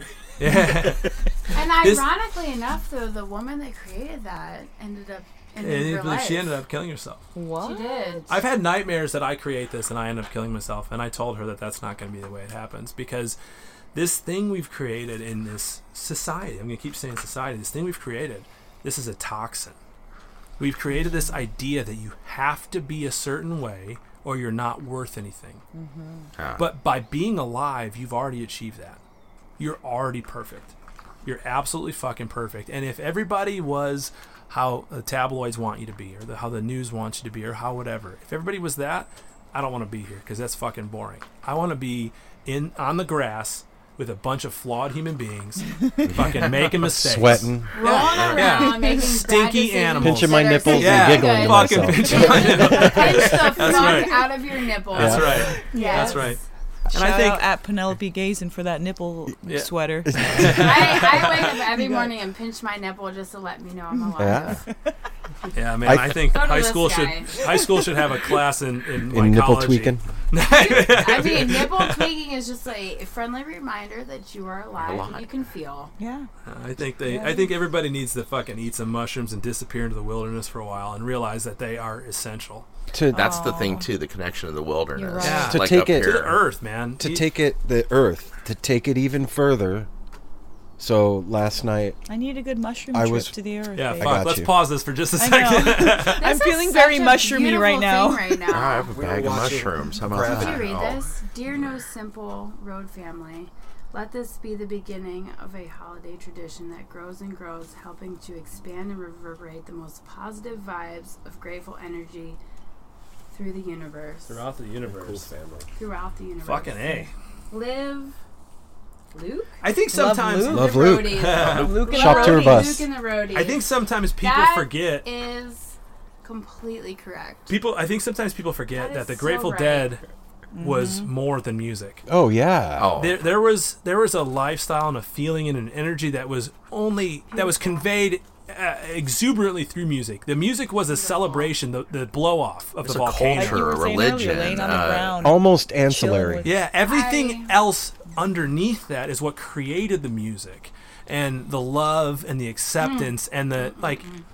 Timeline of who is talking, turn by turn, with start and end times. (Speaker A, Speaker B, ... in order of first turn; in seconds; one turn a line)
Speaker A: 0.4-2.1
Speaker B: 0.5-0.9
Speaker C: 1.5-6.6
Speaker A: 5.6-7.3
Speaker D: 7.3-7.8
Speaker C: 7.6-8.4
Speaker A: 8.2-13.4
Speaker A: 13.9-19.8
Speaker A: 20.6-25.6
Speaker D: 20.9-21.4
Speaker D: 25.7-26.3
Speaker E: 26.4-26.7
Speaker A: 26.6-29.0
Speaker A: 29.6-56.4
Speaker B: 46.0-47.8
Speaker C: 47.7-56.4
Speaker B: 50.0-54.0
Speaker B: 54.9-55.5
Speaker D: 55.5-56.3
Speaker D: 56.9-60.2
Speaker A: 56.9-57.5
Speaker A: 59.4-61.6
Speaker B: 60.0-61.1
Speaker C: 60.5-64.6
Speaker D: 61.7-62.1
Speaker D: 64.2-64.4
Speaker B: 64.2-64.6
Speaker A: 65.5-72.1
Speaker B: 65.8-66.2
Speaker C: 66.3-67.4
Speaker B: 69.0-70.0
Speaker C: 70.4-75.9
Speaker E: 74.8-75.3
Speaker D: 76.0-76.3
Speaker A: 76.5-82.7
Speaker D: 77.0-77.6
Speaker B: 82.9-83.3
Speaker E: 83.1-86.4
Speaker D: 83.2-83.9
Speaker C: 85.0-85.3
Speaker A: 85.2-87.3
Speaker B: 85.4-86.3
Speaker B: 87.0-89.9
Speaker B: 90.8-92.0
Speaker D: 92.1-94.2
Speaker B: 92.9-93.3
Speaker A: 93.7-96.3
Speaker B: 93.9-94.5
Speaker D: 95.2-98.5
Speaker C: 96.1-98.9
Speaker E: 98.5-101.1
Speaker B: 98.9-100.8
Speaker C: 100.2-112.4
Speaker C: 113.3-114.4
Speaker A: 114.2-115.3
Speaker C: 115.7-116.8
Speaker A: 116.4-117.1
Speaker C: 117.5-118.2
Speaker C: 119.1-119.5
Speaker A: 119.6-122.1
Speaker D: 119.9-120.7
Speaker B: 120.4-122.9
Speaker C: 120.5-127.5
Speaker D: 121.5-122.7
Speaker A: 123.3-125.1
Speaker A: 127.5-130.0
Speaker C: 128.7-129.9
Speaker D: 130.5-131.1
Speaker A: 130.6-132.0
Speaker B: 132.1-132.9
Speaker E: 132.8-133.2
Speaker A: 132.9-143.6
Speaker C: 137.3-137.8
Speaker C: 140.9-141.5
Speaker E: 142.8-145.3
Speaker D: 143.3-146.6
Speaker B: 145.2-146.5
Speaker A: 146.4-154.1
Speaker C: 146.7-147.5
Speaker C: 152.8-154.2